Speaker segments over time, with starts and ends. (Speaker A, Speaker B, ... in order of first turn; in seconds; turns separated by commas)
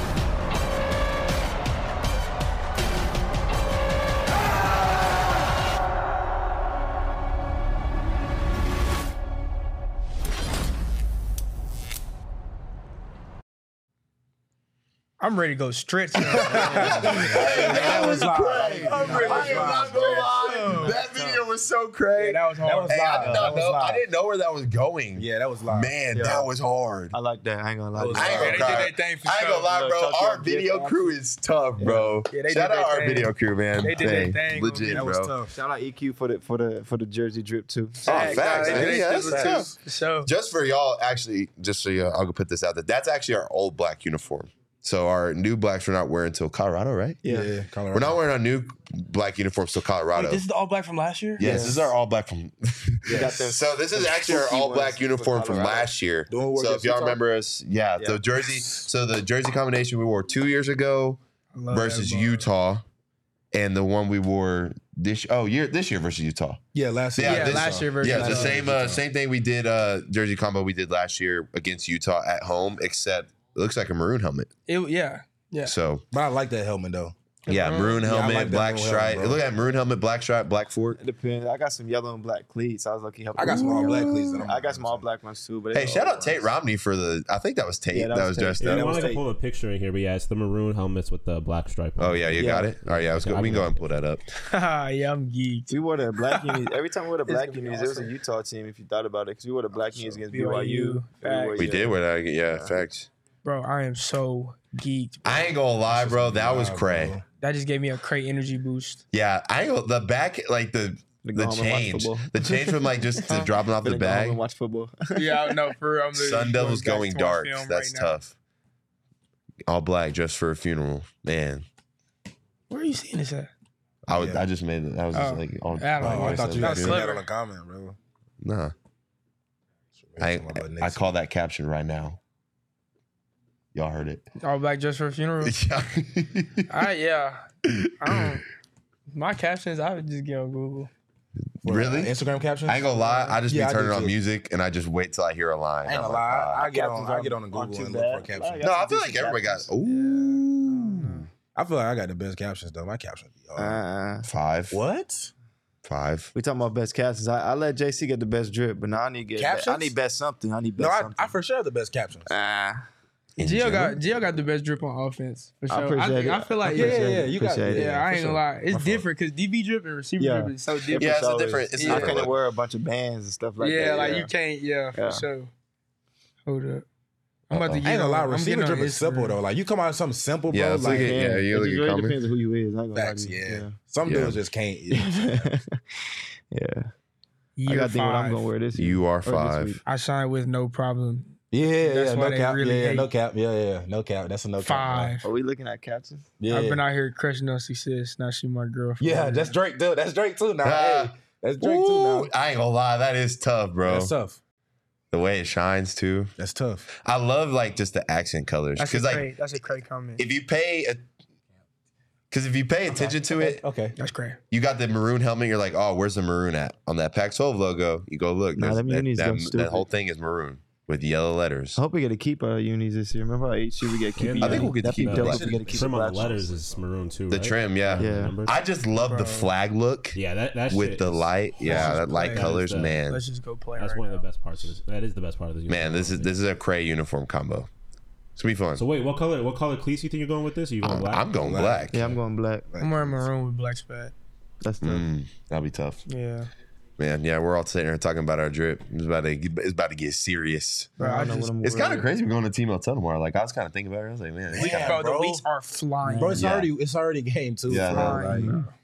Speaker A: 15.2-21.0, Speaker B: 16.2-20.3, Speaker C: 16.3-27.1, Speaker D: 19.1-21.4, Speaker A: 22.1-23.1, Speaker B: 22.6-24.0, Speaker D: 23.2-23.6, Speaker B: 25.1-25.9, Speaker D: 26.1-26.5, Speaker D: 27.1-28.8, Speaker B: 27.9-28.8, Speaker C: 28.1-35.3, Speaker A: 28.3-29.7, Speaker D: 29.6-31.1, Speaker B: 31.8-32.1, Speaker A: 32.3-35.0, Speaker B: 33.9-35.5, Speaker D: 35.5-38.4, Speaker C: 38.0-39.7, Speaker A: 38.0-40.3, Speaker B: 38.1-39.8, Speaker C: 40.2-47.2, Speaker D: 47.2-47.5, Speaker B: 47.2-48.2, Speaker C: 47.9-50.4, Speaker A: 50.1-51.4, Speaker C: 51.4-61.2, Speaker B: 51.4-51.8, Speaker D: 51.4-51.8, Speaker B: 53.0-53.4, Speaker D: 53.1-55.9, Speaker B: 56.3-57.2, Speaker A: 61.5-62.4, Speaker C: 61.7-62.8, Speaker C: 63.5-66.6, Speaker B: 66.7-69.0, Speaker C: 67.2-74.5, Speaker A: 67.2-68.6, Speaker A: 74.7-75.7, Speaker C: 75.6-76.0, Speaker B: 76.1-77.2, Speaker A: 77.5-78.0, Speaker C: 77.5-81.0, Speaker B: 77.8-79.4, Speaker D: 81.0-86.5, Speaker B: 83.3-85.0, Speaker C: 83.4-84.5, Speaker C: 85.7-89.1, Speaker D: 87.9-89.2, Speaker E: 88.6-94.0, Speaker C: 92.0-94.3, Speaker D: 92.4-92.7, Speaker A: 94.3-95.8, Speaker D: 95.7-102.8, Speaker A: 96.3-96.7, Speaker A: 97.3-98.1, Speaker A: 100.3-101.7, Speaker C: 101.6-103.1, Speaker A: 103.4-105.5, Speaker C: 105.2-107.2, Speaker B: 105.9-107.2, Speaker A: 107.4-109.0, Speaker C: 109.1-114.4, Speaker D: 111.2-115.6, Speaker A: 115.1-118.2, Speaker C: 116.1-118.3, Speaker C: 119.7-121.6, Speaker A: 122.7-123.5, Speaker C: 124.0-127.0, Speaker B: 124.1-124.5, Speaker A: 125.1-127.2, Speaker B: 126.0-128.0, Speaker C: 128.4-128.7, Speaker B: 130.0-131.1, Speaker C: 130.2-132.2, Speaker C: 133.7-134.2, Speaker A: 134.4-135.6, Speaker C: 135.4-136.7, Speaker A: 136.7-137.4, Speaker C: 137.6-138.1, Speaker A: 138.0-138.4, Speaker A: 139.1-140.9, Speaker C: 141.6-142.1, Speaker B: 141.6-144.1, Speaker C: 142.7-146.7, Speaker B: 145.8-148.7, Speaker D: 146.6-151.2, Speaker C: 148.6-151.3, Speaker B: 151.5-153.8, Speaker D: 153.6-154.2, Speaker C: 154.2-154.8, Speaker B: 154.7-155.3, Speaker C: 155.8-156.3, Speaker D: 156.3-161.3, Speaker B: 159.3-159.9, Speaker B: 160.8-162.3, Speaker D: 162.3-162.8, Speaker C: 163.4-164.0, Speaker A: 163.4-171.2, Speaker D: 165.7-168.1, Speaker B: 166.7-169.0, Speaker D: 170.2-174.3, Speaker C: 171.0-172.4, Speaker A: 171.8-172.2, Speaker A: 173.6-175.5, Speaker D: 174.9-175.2, Speaker A: 176.4-176.8, Speaker A: 177.5-179.4, Speaker C: 177.5-177.8, Speaker B: 177.8-181.4, Speaker C: 180.5-182.2, Speaker D: 180.8-183.7, Speaker B: 182.9-185.5, Speaker C: 184.0-184.4, Speaker D: 184.9-186.9, Speaker A: 187.6-188.5, Speaker D: 187.7-189.8, Speaker C: 188.7-189.8, Speaker A: 189.8-193.1, Speaker B: 191.5-195.2, Speaker A: 194.6-195.3, Speaker D: 195.2-196.3, Speaker B: 196.4-196.8, Speaker A: 196.5-199.5, Speaker B: 199.0-202.3, Speaker C: 200.6-204.1, Speaker B: 203.8-204.4, Speaker C: 205.1-206.3, Speaker B: 206.4-206.9, Speaker C: 207.0-209.3, Speaker A: 208.8-210.2, Speaker C: 210.2-211.0, Speaker C: 212.3-213.6, Speaker B: 212.9-214.0, Speaker A: 214.0-214.4, Speaker C: 214.5-221.8, Speaker D: 218.5-219.9, Speaker D: 221.8-226.5, Speaker E: 224.2-228.6, Speaker C: 224.4-225.6, Speaker B: 225.1-226.8, Speaker C: 227.3-233.2, Speaker D: 228.0-228.4, Speaker A: 229.0-229.5, Speaker E: 230.1-233.0, Speaker A: 231.7-232.5, Speaker B: 231.7-232.5, Speaker A: 233.1-234.2, Speaker E: 233.8-236.4, Speaker C: 235.7-237.7, Speaker C: 238.4-238.8, Speaker E: 238.7-241.4, Speaker C: 240.8-242.0, Speaker B: 241.4-242.2, Speaker D: 241.9-242.7, Speaker B: 242.7-243.3, Speaker A: 242.8-244.1, Speaker D: 244.6-245.1, Speaker C: 244.8-246.0, Speaker A: 246.1-246.5, Speaker C: 247.0-251.0, Speaker D: 251.0-252.1, Speaker A: 251.0-251.5, Speaker C: 251.6-255.0, Speaker B: 254.5-255.4, Speaker A: 254.6-256.4, Speaker D: 256.0-256.4, Speaker B: 256.1-258.6, Speaker C: 256.4-256.7, Speaker C: 257.7-258.3, Speaker A: 257.9-258.7, Speaker D: 258.3-258.7